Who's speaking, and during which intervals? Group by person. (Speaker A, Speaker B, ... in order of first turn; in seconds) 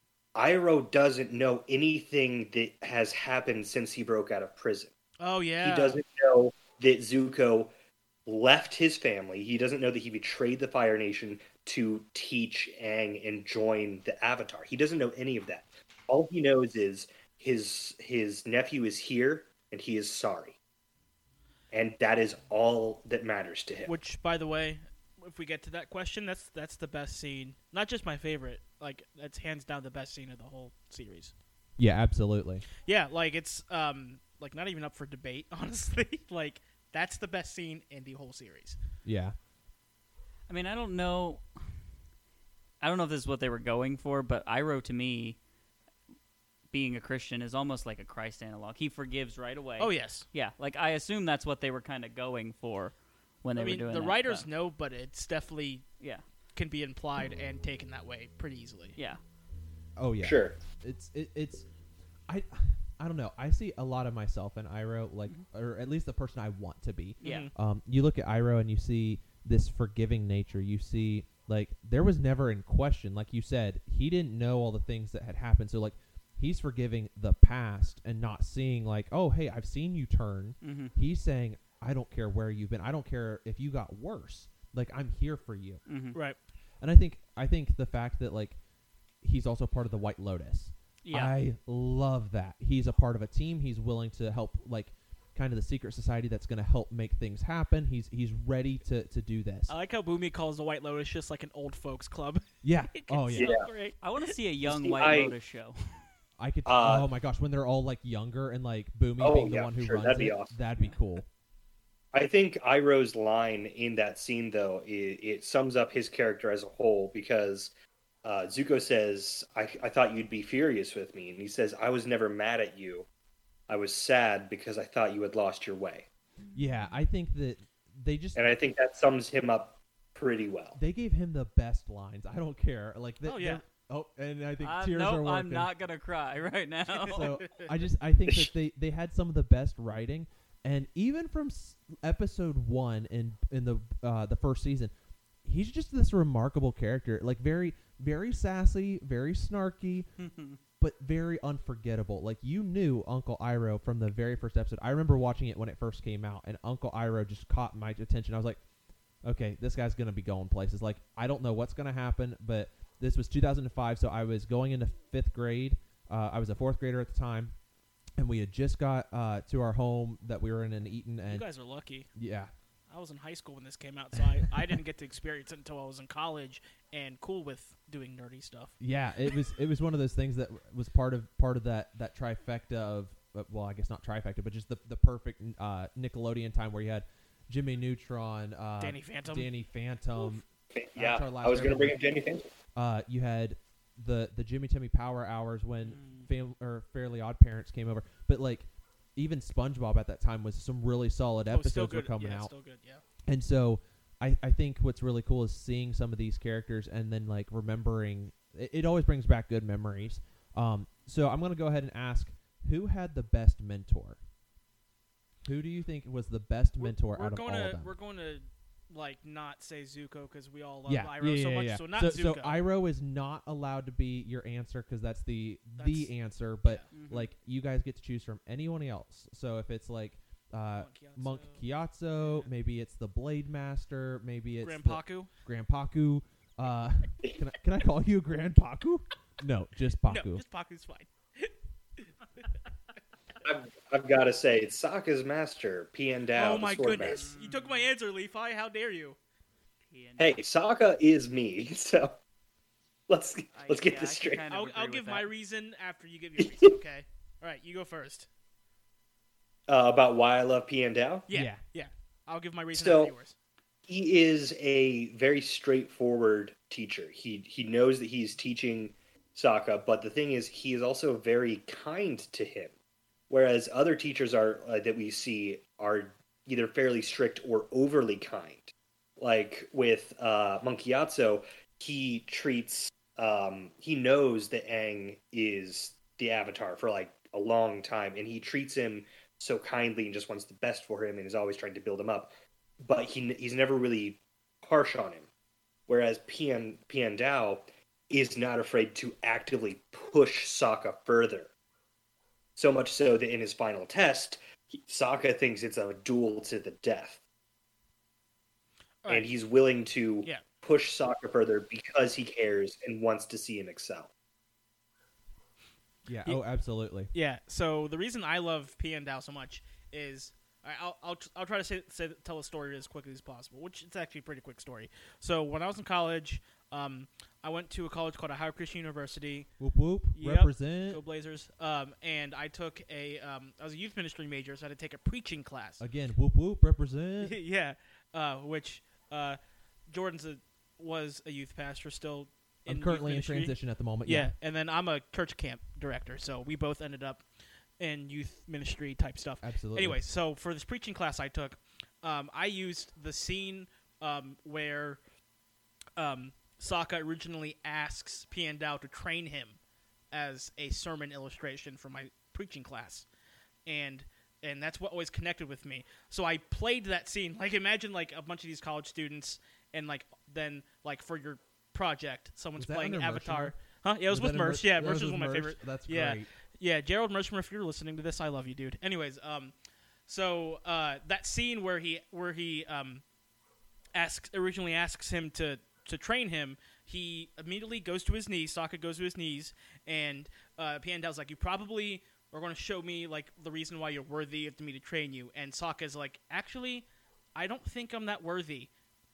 Speaker A: 0.3-4.9, 5.6-7.7, 8.2-20.6, 21.7-23.9, 60.2-60.6, 103.4-103.7, 104.6-105.3, 106.7-107.1, 109.2-110.5, 112.1-117.7, 118.2-123.0, 123.7-126.1, 128.3-130.8, 190.7-192.5, 243.4-247.2, 250.2-252.2, 253.1-254.4, 256.4-256.7, 259.7-261.3, 262.7-263.1, 263.9-272.7, 273.3-292.3, 292.8-295.2, 295.9-301.5, 302.6-307.2, 309.1-314.1
Speaker B: 5.2-6.0, 23.9-31.4, 32.8-38.8, 49.8-50.3, 53.5-55.9, 56.5-59.0, 67.2-67.5, 99.7-102.4, 102.9-104.3, 133.2-133.6, 136.9-137.7, 171.3-172.1, 172.9-178.8, 188.8-189.5, 201.5-203.0, 216.8-222.6, 225.8-226.1, 230.7-231.7, 234.6-235.3, 240.1-242.5, 246.3-249.2, 254.5-258.3, 261.3-263.3, 317.1-329.5, 330.1-335.8, 337.2-343.5, 344.1-347.3, 347.8-355.0, 356.0-359.6, 360.1-363.1, 363.6-379.5, 380.1-383.0, 383.9-398.7
Speaker C: 31.8-32.6, 39.0-39.4, 60.0-61.6, 62.3-85.8, 86.8-88.6, 89.2-99.7, 102.6-103.5, 106.4-111.2, 126.5-128.5, 130.7-135.7, 137.1-144.9, 145.4-150.1, 150.8-158.6, 159.2-167.5, 168.2-171.5, 172.1-172.5, 178.8-191.9, 192.7-202.5, 203.2-214.2, 215.4-217.9, 220.8-240.4, 261.3-261.6, 316.1-317.1, 329.6-331.0, 335.8-337.4, 342.6-344.3, 349.4-350.0, 372.6-373.5, 374.1-376.3
Speaker D: 40.5-41.8, 42.8-45.4, 46.7-54.5, 67.2-67.5, 80.6-80.9, 85.9-86.2, 91.0-91.3, 104.0-106.1, 126.4-127.0, 134.6-137.3, 150.2-150.6, 195.9-196.2, 226.9-227.3, 247.0-247.9, 249.9-250.4, 253.5-255.3